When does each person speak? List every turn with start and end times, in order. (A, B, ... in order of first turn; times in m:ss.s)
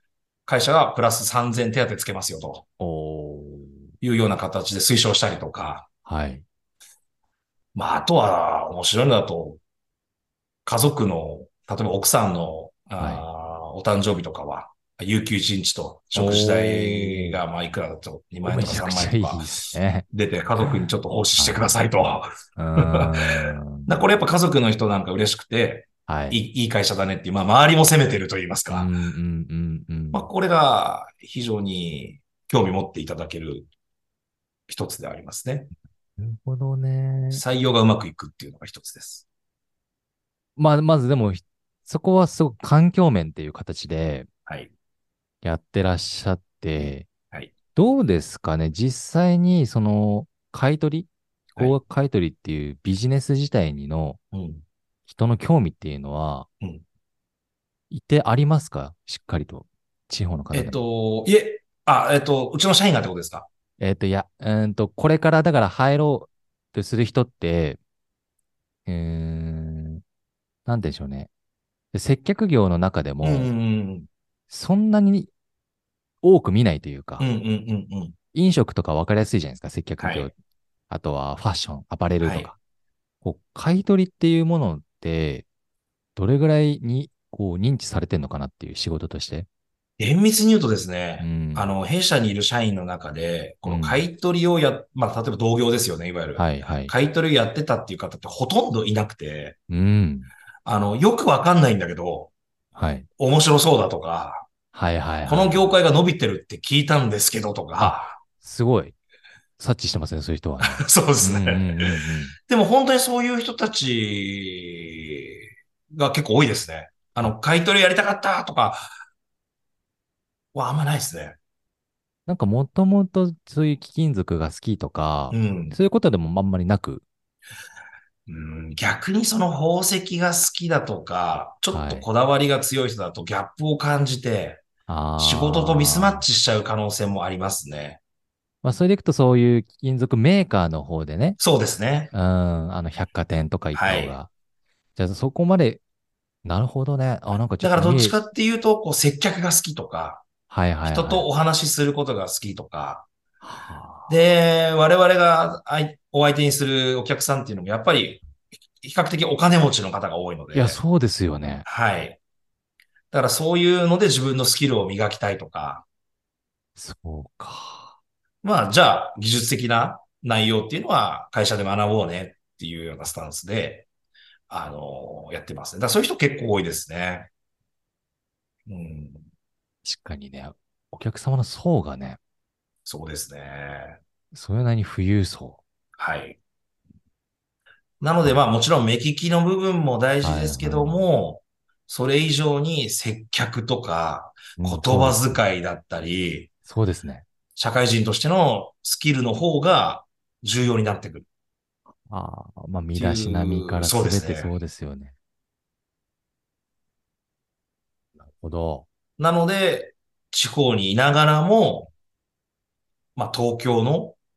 0:00.5-0:02.6 A
0:02.8-0:03.9 B
0:04.0-0:05.9 A
0:06.0-0:06.4 B
0:07.7-0:09.6 A
0:10.6-0:19.5 A
0:13.0-0:13.2 B
0:16.1-0:17.4 B
0:18.4-0:20.1 B
0:20.1-0:28.9 A
0:21.4-0:21.6 B
0:22.6-0:23.9 B
0:26.1-0:26.4 B
0:28.7-0:30.3 B
0:30.1-0:33.7 A
0:34.7-0:35.7 A
0:36.2-0:37.4 B
0:37.3-0:39.2 A
0:40.6-0:44.3 B
0:44.5-0:44.7 A
0:45.4-0:47.1 B
0:47.7-0:54.2 B
0:54.3-0:54.6 A
0:55.1-0:56.5 B
0:57.9-1:00.8 B
1:00.5-1:03.5 A
1:03.8-1:07.8 B
1:08.8-1:10.0 B
1:10.6-1:11.3 B
1:11.9-1:13.5 B
1:13.2-1:14.1 A
1:14.5-1:15.3 B
1:16.2-1:17.2 B
1:17.2-1:18.2 A
1:18.3-1:20.3 B
1:20.0-1:20.3 A
1:20.9-1:22.6 B
1:22.2-1:22.5 A
1:23.2-1:25.4 B
1:26.2-1:29.5 B
1:30.0-1:39.6 A
1:31.2-1:31.7 B
1:33.6-1:34.0 B
1:36.4-1:36.9 B
1:39.7-1:40.3 B
1:40.6-1:42.3 A
1:42.7-1:43.1 B
1:43.2-1:44.5 A
1:44.7-1:45.7 B
1:45.2-1:48.2 A
1:47.8-1:49.0 B
1:49.6-1:52.3 B
1:50.6-1:51.9 A
1:52.5-1:58.9 A
2:00.5-2:01.4 A
2:02.3-2:07.0 B
2:05.3-2:05.8 A
2:08.3-2:14.6 A
2:11.7-2:12.0 B
2:14.9-2:16.2 B
2:15.2-2:18.0 A
2:18.6-2:21.4 B
2:21.4-2:22.1 A
2:22.1-2:24.3 B
2:23.7-2:24.2 A
2:25.0-2:25.8 B
2:26.4-2:28.2 B
2:27.6-2:30.2 A
2:30.5-2:31.2 B
2:30.8-2:33.1 A
2:33.4-2:34.2 B
2:34.1-2:38.2 A
2:38.8-2:40.8 A
2:40.5-2:41.7 B
2:41.6-2:42.2 A
2:43.1-2:45.8 A
2:46.8-2:47.9 B
2:48.4-2:53.9 A
2:54.5-2:57.3 A
2:58.7-2:59.2 A
2:59.8-3:02.2 B
3:02.8-3:04.0 A
3:04.3-3:05.6 B
3:06.0-3:06.4 A
3:08.0-3:16.5 A
3:10.2-3:11.0 B
3:14.6-3:15.4 B
3:16.6-3:17.2 B
3:17.6-3:21.2 A
3:22.0-3:25.1 B
3:22.9-3:24.6 A
3:28.2-3:28.8 B
3:29.2-3:31.9 A
3:33.2-3:34.2 A